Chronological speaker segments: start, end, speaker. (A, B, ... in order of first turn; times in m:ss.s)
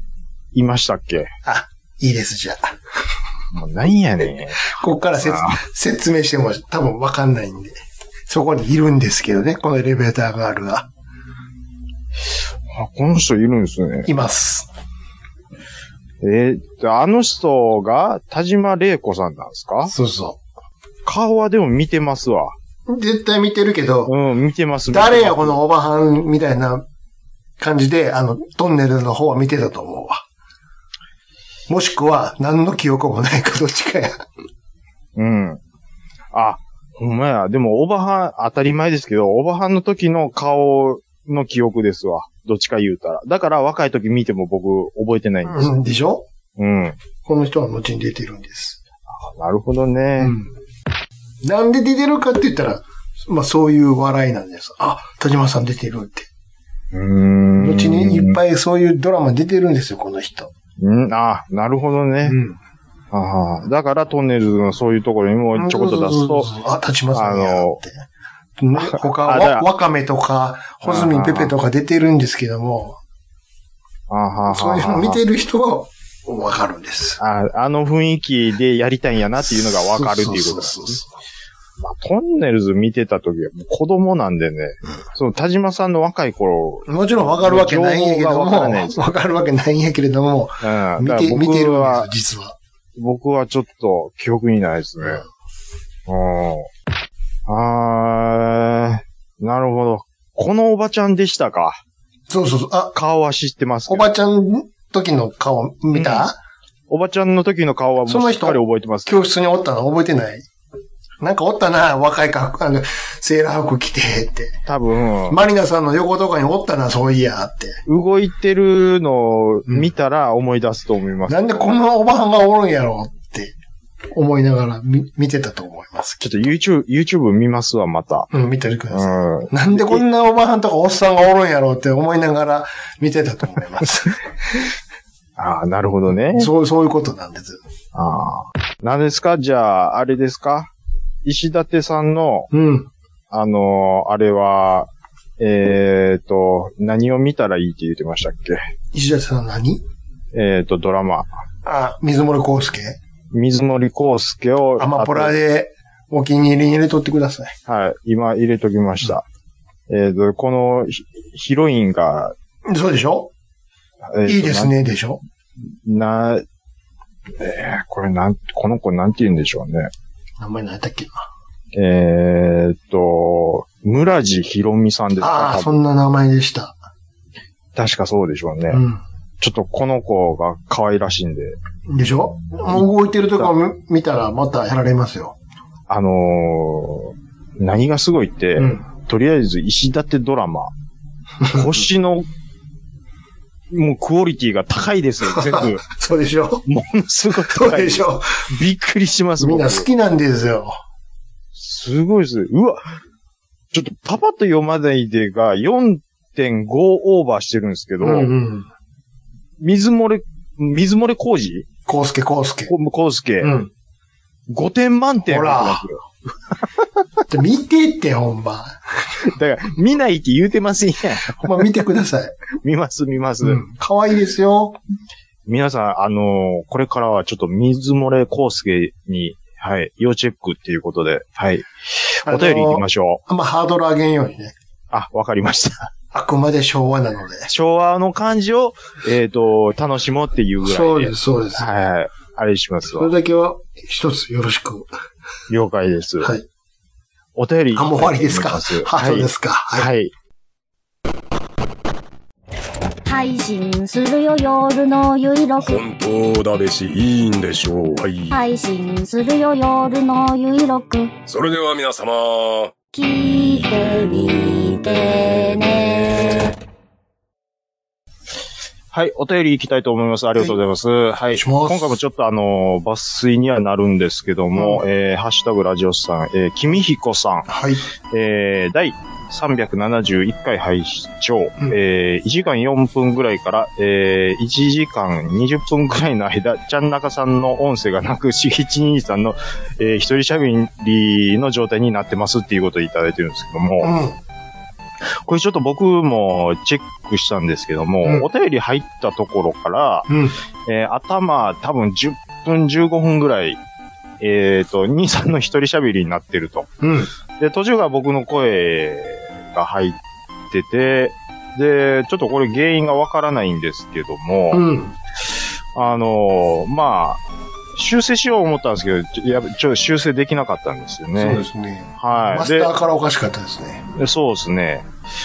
0:00.5-0:01.3 A
0:01.4-0:02.8 B
0:03.5-0:04.7 A
0:04.6-0:07.8 B
0:05.2-0:05.6 A
0:08.3-0:10.9 B
0:12.7-0:14.1 A
0:14.0-0:14.7 B
0:16.2-0:19.9 A
0:19.9-0:20.4 B
0:21.0-0:22.5 A
0:22.9-0:24.1 B
0:24.1-0:25.6 A
0:24.9-0:26.9 B
0:27.6-0:30.2 B
0:31.7-0:34.2 B
0:35.2-0:35.6 A
0:36.3-0:45.8 A
0:45.4-0:46.3 B
0:46.6-0:47.0 A
0:47.2-0:48.8 B
0:49.1-0:50.4 A
0:50.2-0:50.5 B
0:51.4-0:56.3 B
0:56.9-0:58.4 A
0:57.6-1:00.5 B
1:00.8-1:02.4 A
1:02.2-1:02.6 B
1:03.1-1:06.5 A
1:05.6-1:08.0 B
1:07.1-1:07.8 A
1:08.6-1:13.0 B
1:08.8-1:09.7 A
1:10.8-1:11.5 A
1:14.1-1:15.2 A
1:14.5-1:17.2 B
1:17.2-1:21.0 A
1:19.4-1:21.1 B
1:21.8-1:29.1 A
1:26.9-1:32.6 B
1:30.6-1:32.1 A
1:33.0-1:35.2 A
1:36.1-1:36.7 A
1:37.5-1:41.8 A
1:42.3-1:43.0 B
1:42.9-1:44.1 A
1:43.9-1:46.4 B
1:45.9-1:46.3 A
1:46.9-1:49.2 A
1:48.0-1:50.5 B
1:51.2-1:54.6 B
1:54.7-1:55.4 A
1:55.3-1:57.8 B
1:57.9-2:01.7 A
1:59.7-1:59.9 B
2:01.3-2:03.6 B
2:04.1-2:06.4 B
2:06.2-2:08.3 A
2:08.3-2:14.2 B
2:08.9-2:10.0 A
2:15.4-2:16.5 A
2:16.3-2:17.6 B
2:18.0-2:20.7 A
2:21.2-2:22.5 A
2:22.5-2:22.9 B
2:23.3-2:28.7 A
2:28.9-2:29.8 B
2:30.3-2:31.3 A
2:31.6-2:33.0 B
2:33.3-2:35.4 A
2:34.8-2:37.6 B
2:37.7-2:39.2 A
2:39.9-2:42.3 A
2:42.7-2:43.3 B
2:44.1-2:44.8 A
2:44.3-2:45.2 B
2:45.7-2:46.4 A
2:47.4-2:49.9 A
2:50.4-2:51.3 B
2:51.7-2:55.7 A
2:55.2-2:56.8 B
2:57.8-2:58.8 A
2:58.7-2:59.0 B
2:59.4-3:01.6 A
3:01.9-3:05.4 B
3:05.9-3:10.7 A
3:08.6-3:08.8 B
3:11.4-3:11.7 B
3:11.5-3:12.3 A
3:13.7-3:15.8 A
3:15.3-3:16.7 B
3:16.7-3:19.9 A
3:17.5-3:18.4 B
3:19.4-3:20.8 B
3:21.6-3:22.9 A
3:23.7-3:28.3 A
3:28.0-3:28.7 B
3:29.6-3:31.7 A
3:31.9-3:32.7 B
3:32.7-3:33.6 A
3:33.4-3:33.7 B
3:34.5-3:36.0 A
3:35.3-3:35.9 B
3:37.3-3:39.3 B
3:39.2-3:41.5 A
3:41.3-3:42.3 B
3:42.6-3:43.6 A
3:43.4-3:44.8 B
3:45.5-3:53.2 A
3:52.3-3:54.5 B
3:54.9-3:55.9 A
3:56.1-3:57.5 B
3:57.5-4:03.1 A
4:00.6-4:01.7 B
4:02.9-4:04.9 B
4:05.5-4:06.4 A
4:07.4-4:10.1 A
4:07.7-4:09.9 B
4:13.0-4:15.8 C
4:15.6-4:18.4 D
4:18.3-4:21.1 C
4:21.3-4:22.7 D
4:22.9-4:26.6 C
4:28.9-4:37.5 A
4:31.3-4:32.0 B
4:34.6-4:34.8 B
4:37.5-4:37.8 B
4:38.1-4:53.9 A
4:53.8-4:54.2 B
4:55.0-5:00.1 A
5:00.1-5:00.4 B
5:00.7-5:03.6 A
5:04.2-5:06.7 A
5:06.8-5:07.1 B
5:07.4-5:10.0 A
5:10.5-5:14.6 A
5:14.5-5:15.0 B
5:15.7-5:17.2 A
5:17.7-5:21.4 A
5:21.2-5:23.8 B
5:22.0-5:22.7 A
5:24.0-5:24.9 A